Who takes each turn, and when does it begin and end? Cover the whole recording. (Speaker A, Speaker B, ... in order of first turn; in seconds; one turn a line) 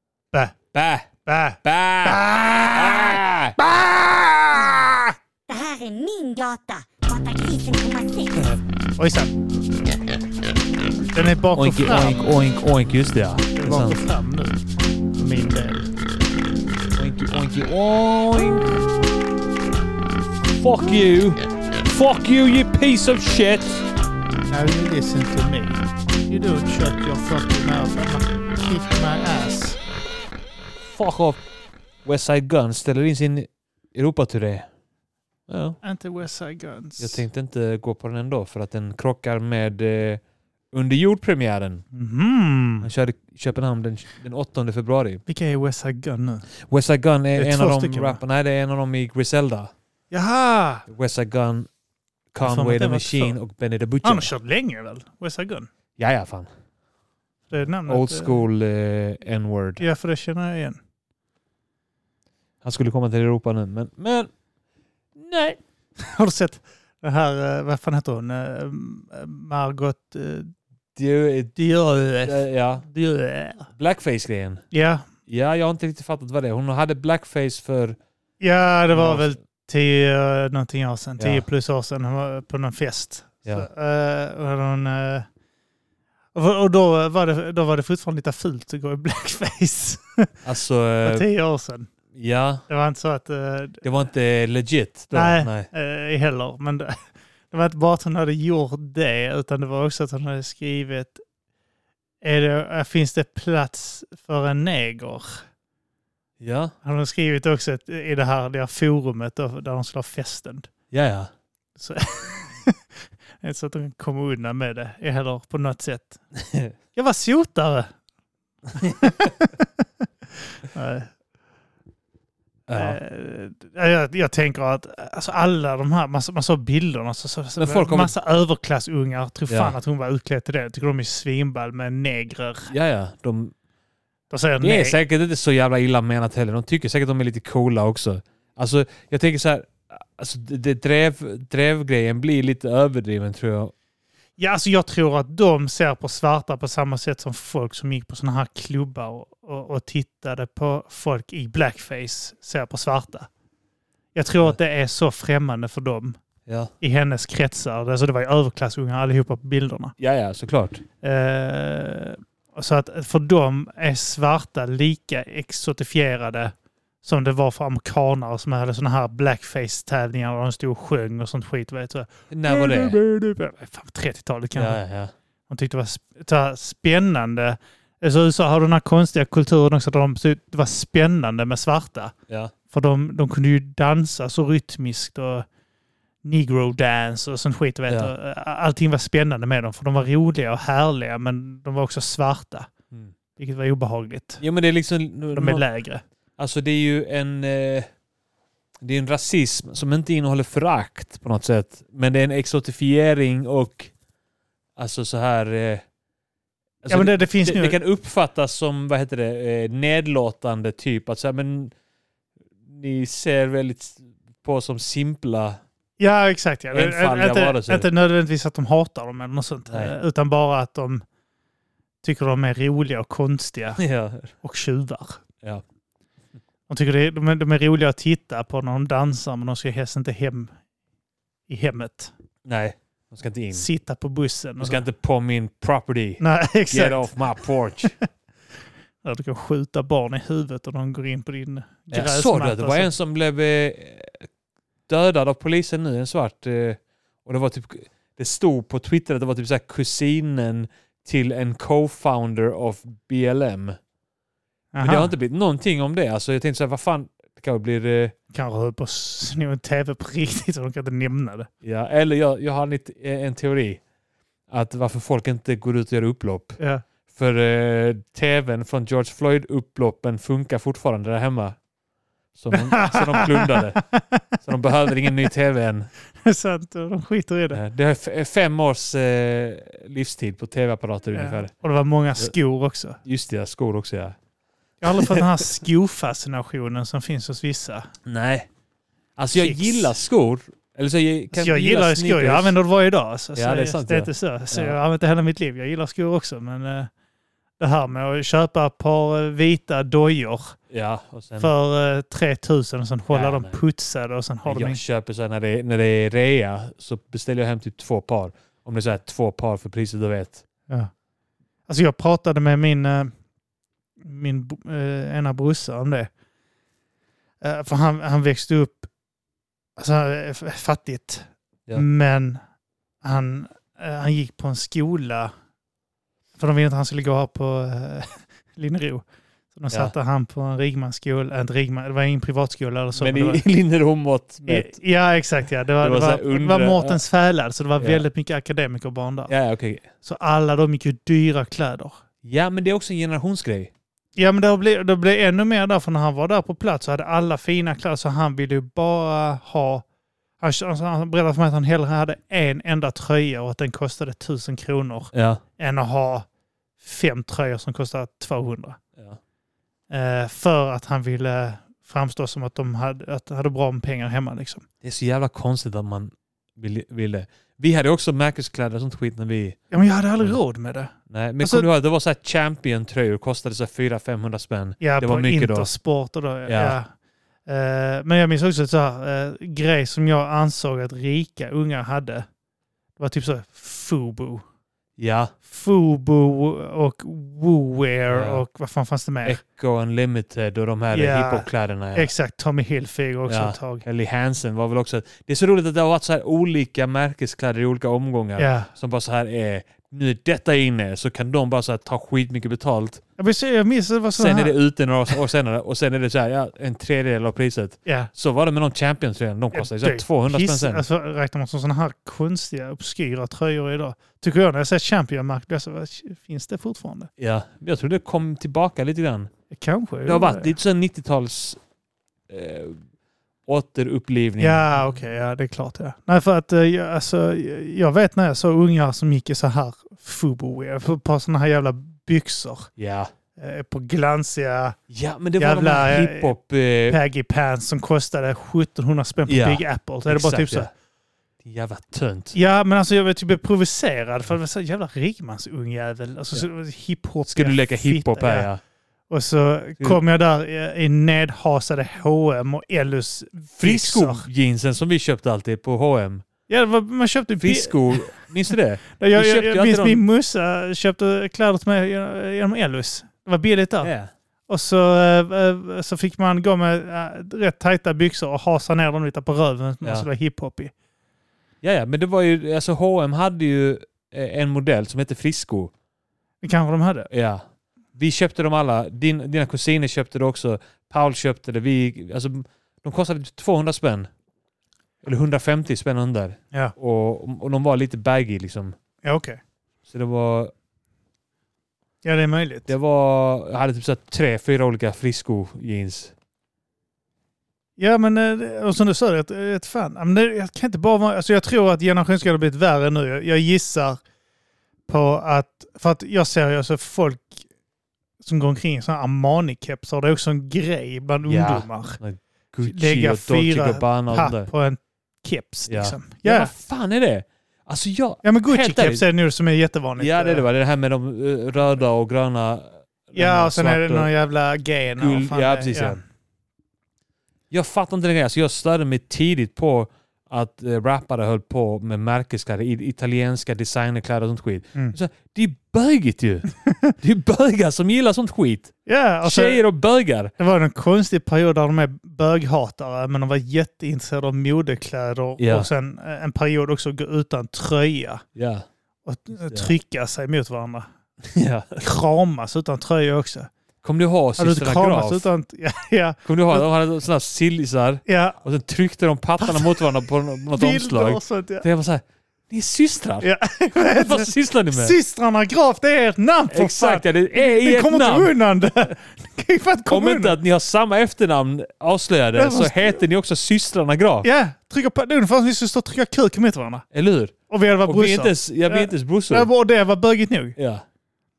Speaker A: 0.7-1.1
Speaker B: 1.2-5.1
Speaker A: 1.6-3.6
Speaker C: 5.5-8.5
Speaker B: 9.0-9.3
Speaker B: 11.1-12.2
Speaker A: 11.6-14.0
Speaker B: 13.6-14.6
Speaker B: 15.2-15.9
Speaker A: 16.9-18.8
Speaker A: 20.6-23.8
Speaker B: 24.5-29.8
Speaker A: 30.9-31.4
Speaker A: 32.0-34.7
Speaker A: 35.5-35.8
Speaker B: 35.8-37.2
Speaker A: 37.0-41.8
Speaker B: 41.9-42.9
Speaker A: 42.8-45.2
Speaker B: 45.3-46.5
Speaker A: 46.6-49.7
Speaker B: 47.4-48.2
Speaker B: 50.1-50.9
Speaker A: 50.9-51.7
Speaker A: 52.3-54.3
Speaker B: 52.4-53.4
Speaker B: 54.0-55.7
Speaker A: 56.0-56.5
Speaker B: 57.5-58.4
Speaker A: 57.9-59.8
Speaker B: 59.8-60.8
Speaker A: 62.6-64.3
Speaker A: 65.2-65.6
Speaker B: 66.0-70.5
Speaker A: 70.9-71.5
Speaker B: 71.5-73.7
Speaker A: 72.2-72.8
Speaker A: 73.7-74.7
Speaker B: 74.7-75.1
Speaker A: 75.3-78.0
Speaker B: 78.4-85.3
Speaker A: 78.9-79.3
Speaker B: 86.3-90.3
Speaker A: 90.4-91.2
Speaker B: 91.0-91.9
Speaker A: 92.1-92.6
Speaker B: 92.7-93.8
Speaker A: 93.8-95.7
Speaker B: 95.1-101.2
Speaker B: 102.2-105.4
Speaker A: 106.4-106.7
Speaker B: 106.8-110.7
Speaker A: 110.9-111.3
Speaker B: 111.8-112.8
Speaker B: 113.4-116.2
Speaker A: 116.3-116.7
Speaker B: 116.9-117.9
Speaker B: 118.8-119.8
Speaker B: 120.7-121.1
Speaker A: 122.7-123.0
Speaker B: 122.7-132.7
Speaker A: 127.6-128.1
Speaker A: 129.5-129.7
Speaker A: 132.7-133.5
Speaker B: 134.3-135.0
Speaker A: 134.6-143.7
Speaker B: 144.4-153.3
Speaker B: 154.1-156.2
Speaker A: 156.4-156.7
Speaker B: 156.8-159.9
Speaker A: 160.0-160.8
Speaker B: 161.0-174.8
Speaker A: 172.3-173.0
Speaker A: 174.5-175.1
Speaker B: 175.5-182.1
Speaker B: 182.7-185.4
Speaker B: 186.2-192.7
Speaker B: 193.3-194.4
Speaker A: 194.4-195.6
Speaker B: 195.3-196.0
Speaker A: 196.4-197.9
Speaker A: 198.8-203.9
Speaker A: 204.8-205.8
Speaker A: 206.8-211.7
Speaker B: 206.9-207.8
Speaker A: 212.7-215.6
Speaker B: 216.0-221.0
Speaker A: 216.7-217.9
Speaker B: 222.0-223.8
Speaker A: 223.8-224.3
Speaker B: 224.4-225.2
Speaker B: 226.7-230.5
Speaker B: 231.5-232.1
Speaker A: 232.4-233.7
Speaker B: 233.5-234.8
Speaker A: 234.6-237.9
Speaker B: 236.2-237.1
Speaker B: 239.0-242.9
Speaker A: 241.9-244.3
Speaker A: 244.9-253.8
Speaker B: 254.7-255.1
Speaker A: 254.8-258.1
Speaker B: 258.3-261.5
Speaker A: 261.6-263.8
Speaker A: 264.5-271.6
Speaker B: 266.6-266.8
Speaker A: 272.4-273.8
Speaker B: 272.5-274.2
Speaker A: 274.4-275.9
Speaker B: 276.1-277.6
Speaker A: 277.5-281.5
Speaker B: 281.1-283.0
Speaker A: 283.0-284.2
Speaker B: 284.8-287.9
Speaker A: 284.9-285.4
Speaker A: 288.1-288.5
Speaker A: 289.2-292.6
Speaker B: 289.3-289.9
Speaker B: 291.3-296.9
Speaker A: 293.4-294.8
Speaker B: 297.6-300.6
Speaker A: 300.7-301.5
Speaker B: 301.4-304.8
Speaker A: 303.1-303.6
Speaker A: 304.4-310.4
Speaker B: 311.7-313.1
Speaker B: 314.0-316.1
Speaker B: 317.4-318.9
Speaker B: 319.8-322.4
Speaker B: 323.0-325.3
Speaker B: 326.4-333.4
Speaker A: 332.9-334.8
Speaker B: 334.4-339.3
Speaker A: 335.8-337.0
Speaker A: 337.8-338.0
Speaker A: 339.3-339.9
Speaker B: 340.0-342.0
Speaker A: 342.2-343.7
Speaker B: 344.1-349.8
Speaker B: 350.4-356.2
Speaker A: 355.1-355.4
Speaker B: 356.8-358.8
Speaker B: 359.9-364.6
Speaker A: 364.8-369.6
Speaker B: 369.7-371.7
Speaker A: 371.1-375.7
Speaker B: 374.8-376.9
Speaker A: 376.4-376.8
Speaker B: 377.5-382.3
Speaker B: 383.0-384.4
Speaker A: 385.0-385.3
Speaker B: 385.4-389.4
Speaker A: 388.1-388.4
Speaker A: 389.2-392.1
Speaker B: 390.9-393.8
Speaker A: 393.3-403.0
Speaker B: 398.4-398.7
Speaker B: 403.2-404.6
Speaker A: 404.2-410.8
Speaker B: 407.9-408.1
Speaker B: 409.5-417.1
Speaker A: 417.2-419.3
Speaker B: 419.5-420.5
Speaker A: 420.1-421.6
Speaker A: 422.3-422.8
Speaker A: 423.5-424.6
Speaker B: 424.4-432.7
Speaker A: 432.8-433.1
Speaker B: 433.4-434.8
Speaker A: 434.9-437.0
Speaker B: 435.4-436.3
Speaker B: 436.9-440.7
Speaker A: 439.3-440.7
Speaker A: 441.4-442.4
Speaker B: 442.3-448.5
Speaker A: 447.2-448.6
Speaker B: 449.1-454.2
Speaker A: 453.6-456.2
Speaker B: 456.5-458.2
Speaker A: 457.4-460.0
Speaker B: 459.0-463.9
Speaker A: 463.8-464.1
Speaker B: 464.5-470.7
Speaker A: 471.6-475.7
Speaker B: 476.4-477.1
Speaker A: 477.1-477.4
Speaker A: 477.9-484.1
Speaker A: 485.0-488.8
Speaker B: 489.0-489.4
Speaker A: 489.9-490.5
Speaker B: 492.0-492.7
Speaker A: 492.7-496.1
Speaker B: 497.8-504.0
Speaker B: 504.9-507.4
Speaker B: 508.2-512.0
Speaker A: 511.2-514.5
Speaker B: 512.6-516.5
Speaker A: 515.7-519.0
Speaker B: 518.2-520.5
Speaker A: 520.0-524.1
Speaker B: 523.1-526.0
Speaker A: 525.0-526.0
Speaker A: 527.5-540.3
Speaker B: 536.7-536.9
Speaker B: 538.9-539.6
Speaker B: 540.4-548.2
Speaker A: 545.4-545.7
Speaker A: 548.4-548.7
Speaker B: 549.0-550.9
Speaker A: 549.3-549.7
Speaker A: 551.3-551.8
Speaker B: 551.8-553.5
Speaker A: 553.8-555.3
Speaker B: 554.4-556.6
Speaker A: 556.2-563.3
Speaker B: 558.0-558.4
Speaker B: 559.4-559.9
Speaker B: 560.5-561.6
Speaker B: 563.2-570.4
Speaker A: 563.8-565.0
Speaker A: 566.5-568.3
Speaker A: 569.9-574.3
Speaker B: 572.4-573.0
Speaker B: 574.2-576.8
Speaker A: 576.9-579.5
Speaker B: 577.5-580.5
Speaker A: 580.5-580.8